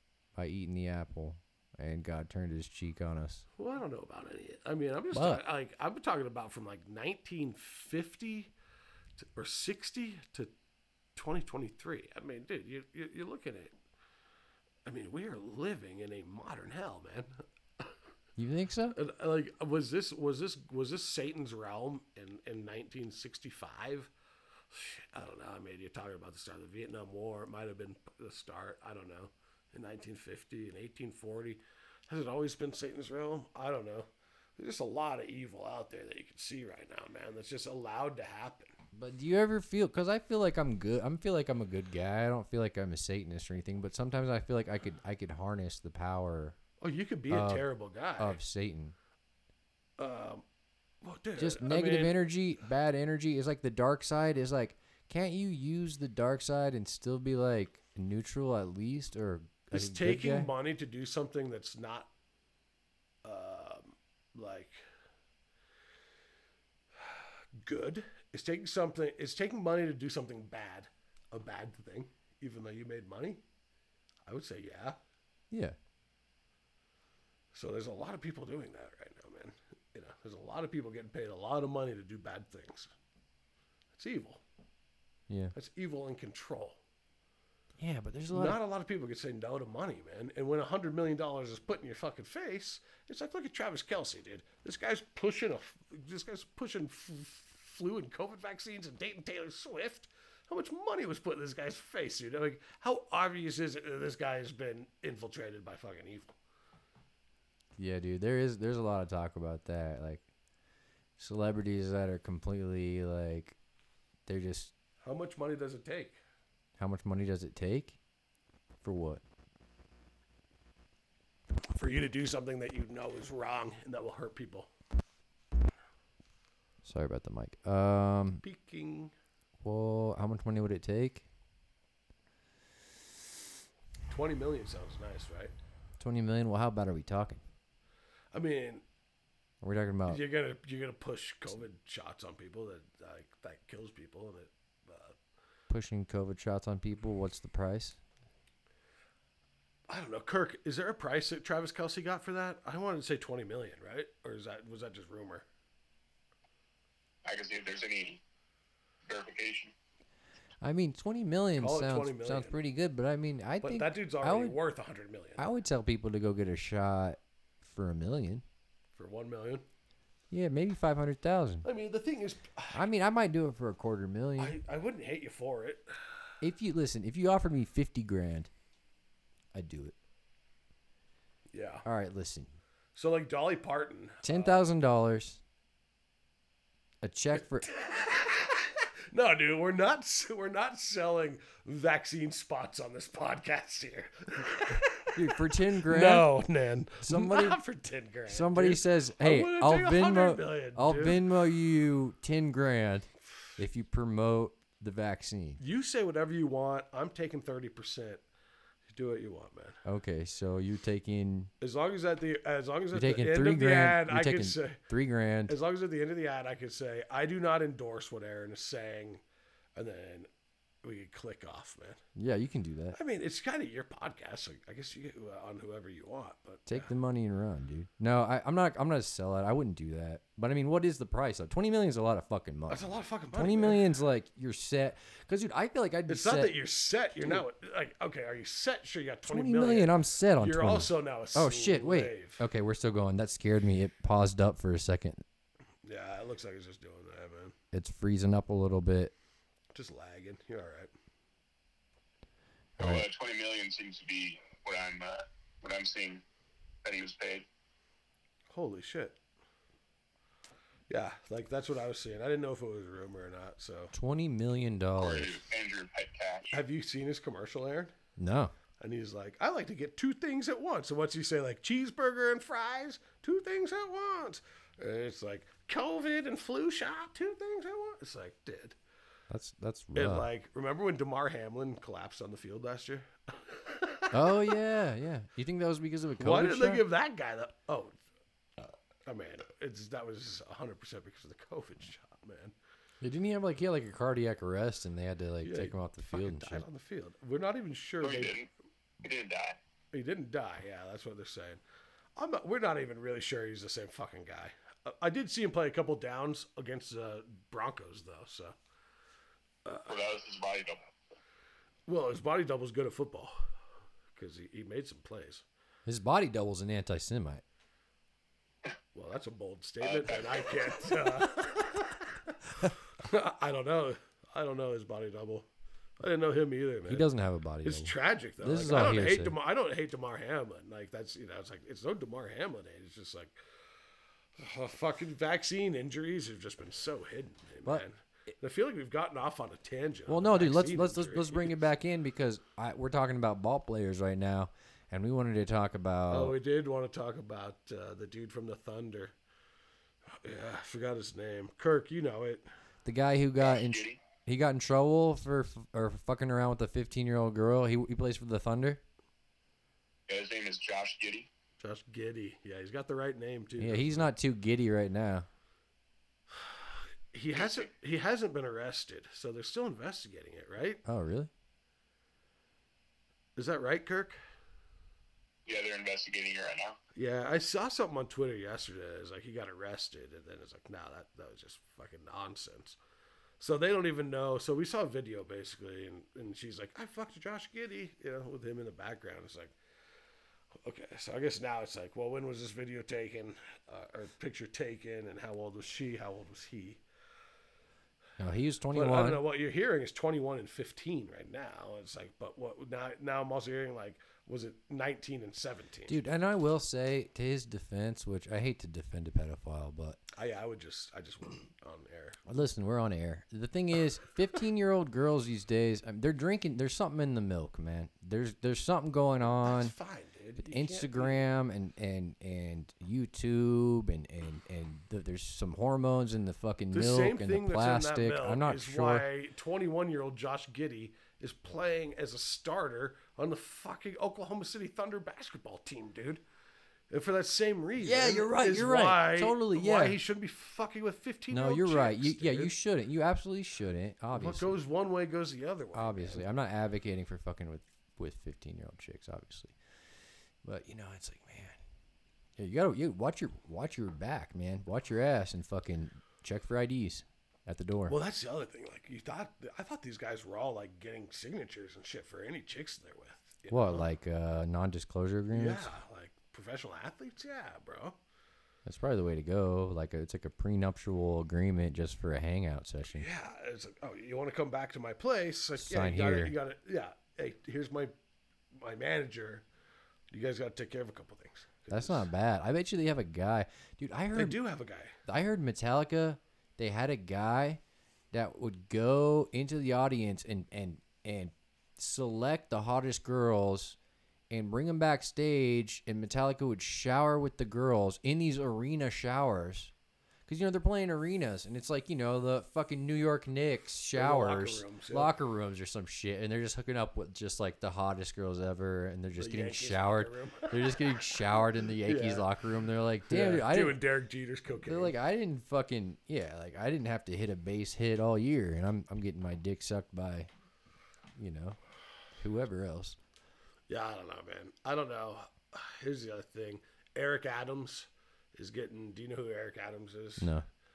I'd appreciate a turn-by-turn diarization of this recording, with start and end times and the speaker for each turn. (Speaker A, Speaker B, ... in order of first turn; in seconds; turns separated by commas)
Speaker A: 0.3-3.5, Speaker B: 3.6-8.5, Speaker A: 5.1-5.4, Speaker B: 9.2-10.5, Speaker B: 11.2-13.7, Speaker B: 14.8-17.9, Speaker A: 18.4-19.0, Speaker B: 18.9-24.1, Speaker B: 24.7-38.7, Speaker A: 38.9-46.5, Speaker B: 46.8-48.4, Speaker A: 47.3-48.9, Speaker B: 50.0-50.4, Speaker B: 51.0-52.2, Speaker A: 51.4-60.5, Speaker B: 59.7-62.1, Speaker B: 63.2-64.8, Speaker B: 67.0-73.4, Speaker B: 74.2-75.0, Speaker A: 75.5-75.8, Speaker B: 77.5-82.9, Speaker B: 83.9-84.4, Speaker A: 85.3-85.5, Speaker B: 85.5-86.8, Speaker A: 87.8-88.6, Speaker B: 88.3-106.3, Speaker A: 107.8-110.2, Speaker A: 111.2-113.5, Speaker A: 114.3-114.7, Speaker B: 115.0-116.2, Speaker A: 116.8-118.0, Speaker A: 118.8-119.2, Speaker B: 121.6-124.7, Speaker A: 126.8-128.4, Speaker B: 128.4-129.1, Speaker A: 129.6-131.2, Speaker B: 134.1-135.5, Speaker A: 136.0-137.4, Speaker B: 138.3-138.8, Speaker A: 139.6-140.2, Speaker B: 140.1-145.2, Speaker A: 145.7-148.0, Speaker B: 149.9-155.4, Speaker C: 157.2-158.2, Speaker C: 159.1-159.7, Speaker A: 160.6-164.5, Speaker B: 161.6-162.6, Speaker B: 163.6-165.5, Speaker A: 165.4-168.4, Speaker B: 168.9-169.6, Speaker A: 170.3-171.7, Speaker B: 171.6-172.8, Speaker A: 172.7-174.6, Speaker B: 174.4-176.0, Speaker A: 176.4-178.5, Speaker A: 179.5-179.9, Speaker B: 181.5-181.8, Speaker A: 181.8-182.5, Speaker B: 182.9-184.6, Speaker A: 184.2-185.4, Speaker A: 187.0-187.7, Speaker B: 187.6-201.2, Speaker A: 194.7-196.3, Speaker A: 197.0-197.6, Speaker A: 198.3-205.6, Speaker B: 205.6-208.2, Speaker B: 208.9-209.8, Speaker A: 209.8-211.5, Speaker B: 211.6-214.8, Speaker A: 212.9-215.5, Speaker B: 215.5-219.2, Speaker B: 219.8-220.3, Speaker B: 220.8-222.0, Speaker A: 222.2-223.0, Speaker B: 222.9-226.9, Speaker A: 226.7-236.5, Speaker B: 232.7-233.8, Speaker B: 236.1-242.4, Speaker A: 239.2-245.2, Speaker B: 245.8-247.5, Speaker A: 247.7-249.1, Speaker B: 249.7-250.9, Speaker A: 252.8-253.1, Speaker C: 252.8-256.2, Speaker C: 256.8-257.4, Speaker B: 258.5-259.2, Speaker B: 260.9-263.9, Speaker A: 263.9-265.4, Speaker C: 265.0-266.6, Speaker B: 266.5-267.9, Speaker A: 268.2-268.5, Speaker B: 268.8-278.8, Speaker A: 279.3-280.3, Speaker B: 279.9-284.6, Speaker A: 284.1-286.8, Speaker B: 286.2-288.0, Speaker B: 289.1-292.5, Speaker A: 293.0-296.6, Speaker B: 295.4-298.4, Speaker C: 298.0-298.5, Speaker C: 299.0-299.6, Speaker B: 299.9-301.6, Speaker B: 302.1-308.5, Speaker B: 309.6-309.9, Speaker C: 309.9-310.8, Speaker B: 311.9-313.4, Speaker B: 314.1-315.4, Speaker A: 315.9-317.4, Speaker B: 318.9-325.5, Speaker C: 319.8-320.7, Speaker B: 326.0-327.1, Speaker A: 326.9-329.4, Speaker B: 327.6-333.3, Speaker B: 334.4-341.6, Speaker A: 340.1-346.3, Speaker B: 346.1-349.1, Speaker B: 350.2-352.4, Speaker A: 352.8-358.8, Speaker C: 353.4-354.0, Speaker C: 360.1-361.3, Speaker B: 361.6-364.1, Speaker A: 363.6-365.3, Speaker B: 366.3-370.8, Speaker C: 367.3-367.7, Speaker A: 370.8-371.3, Speaker B: 373.4-374.2, Speaker C: 375.4-376.8, Speaker B: 376.9-382.8, Speaker B: 383.4-389.5, Speaker B: 390.6-396.8, Speaker A: 398.2-399.2, Speaker B: 398.7-406.0, Speaker A: 405.9-410.0, Speaker B: 410.1-412.2, Speaker A: 412.2-419.7, Speaker B: 419.4-421.2, Speaker A: 420.4-429.1, Speaker B: 426.7-436.2, Speaker B: 436.9-442.5, Speaker A: 437.8-440.0, Speaker A: 441.3-444.6, Speaker B: 444.1-446.2, Speaker A: 445.7-449.6, Speaker A: 450.4-451.6, Speaker A: 452.4-458.0, Speaker B: 457.9-463.9, Speaker A: 463.5-465.7, Speaker B: 465.3-468.0, Speaker A: 468.6-473.1, Speaker B: 472.9-477.9, Speaker A: 475.6-476.3, Speaker B: 478.5-479.4, Speaker B: 480.1-482.1, Speaker A: 481.7-484.4, Speaker B: 484.1-485.0, Speaker A: 485.0-487.6, Speaker A: 488.1-493.8, Speaker A: 494.3-499.7, Speaker A: 500.3-513.8, Speaker B: 503.9-505.1, Speaker B: 509.1-512.3, Speaker B: 513.1-514.9, Speaker A: 514.6-520.3, Speaker A: 521.1-521.6, Speaker A: 522.1-523.0, Speaker B: 523.7-530.3, Speaker A: 530.2-530.4